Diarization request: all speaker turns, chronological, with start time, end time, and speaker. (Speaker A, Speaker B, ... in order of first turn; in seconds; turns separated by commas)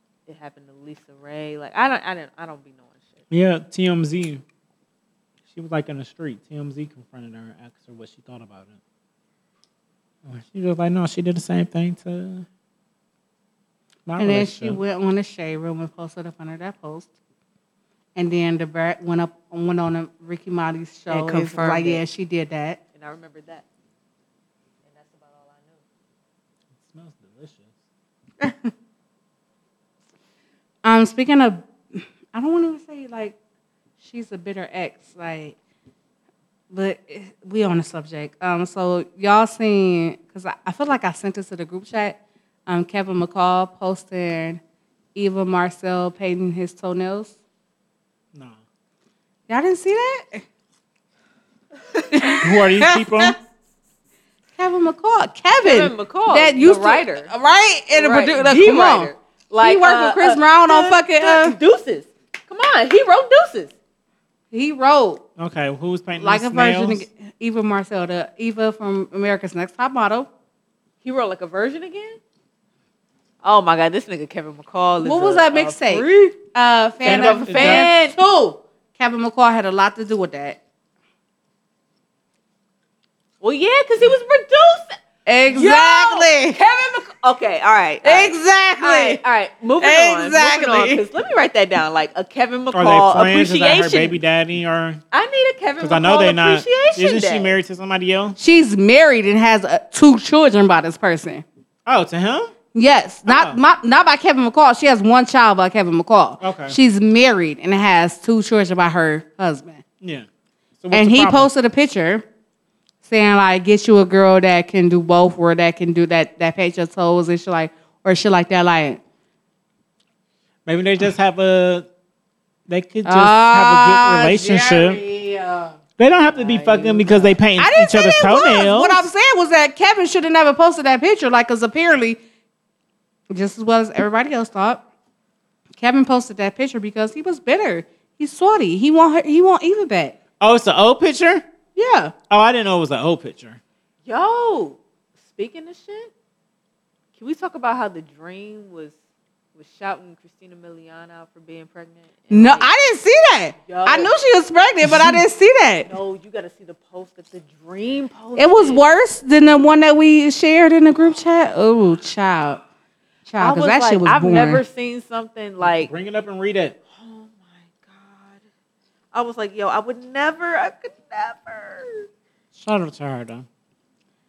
Speaker A: 0.3-3.2, Speaker B: 3.3-4.4, Speaker B: 5.5-8.8, Speaker B: 10.2-12.5, Speaker B: 14.1-14.8, Speaker C: 14.2-17.1, Speaker C: 18.2-22.8, Speaker A: 21.1-22.0, Speaker A: 22.9-23.6, Speaker A: 24.8-25.8, Speaker B: 26.8-27.7, Speaker C: 28.4-28.7, Speaker C: 30.9-33.4, Speaker C: 34.0-35.6, Speaker C: 36.7-44.6, Speaker C: 45.1-47.3, Speaker C: 49.5-50.4, Speaker C: 52.0-53.3, Speaker B: 52.4-53.4, Speaker C: 54.6-61.6, Speaker A: 55.6-57.3, Speaker A: 58.0-63.7, Speaker C: 64.5-65.2, Speaker B: 65.4-67.1, Speaker C: 66.2-70.3, Speaker A: 71.0-72.2, Speaker A: 73.4-76.4, Speaker C: 75.0-80.6, Speaker A: 77.0-78.2, Speaker B: 77.0-77.9, Speaker A: 83.4-84.9, Speaker C: 85.3-86.6, Speaker A: 85.5-94.2, Speaker C: 88.0-89.2, Speaker C: 89.8-91.0, Speaker B: 92.7-95.0, Speaker A: 95.1-97.6, Speaker B: 95.8-98.4, Speaker C: 98.4-101.4, Speaker B: 101.9-102.5, Speaker C: 102.7-109.8, Speaker B: 103.3-103.6, Speaker B: 106.4-106.8, Speaker B: 110.0-110.3, Speaker B: 110.8-111.5, Speaker C: 110.9-112.2, Speaker C: 113.0-119.0, Speaker B: 120.7-121.9, Speaker B: 122.7-125.0, Speaker C: 123.0-125.8, Speaker B: 126.0-129.1, Speaker C: 126.4-132.2, Speaker C: 133.3-134.8, Speaker C: 135.8-140.2, Speaker B: 140.4-141.4, Speaker C: 141.8-142.1, Speaker B: 142.3-143.6, Speaker A: 144.1-146.1, Speaker A: 147.2-148.9, Speaker A: 149.6-152.7, Speaker C: 152.3-155.9, Speaker A: 153.7-154.1, Speaker B: 154.8-155.2, Speaker A: 155.9-158.8, Speaker C: 158.4-162.6, Speaker C: 163.3-164.6, Speaker A: 163.4-165.9, Speaker B: 165.6-166.8, Speaker A: 166.9-168.4, Speaker A: 169.1-172.1, Speaker B: 172.5-173.5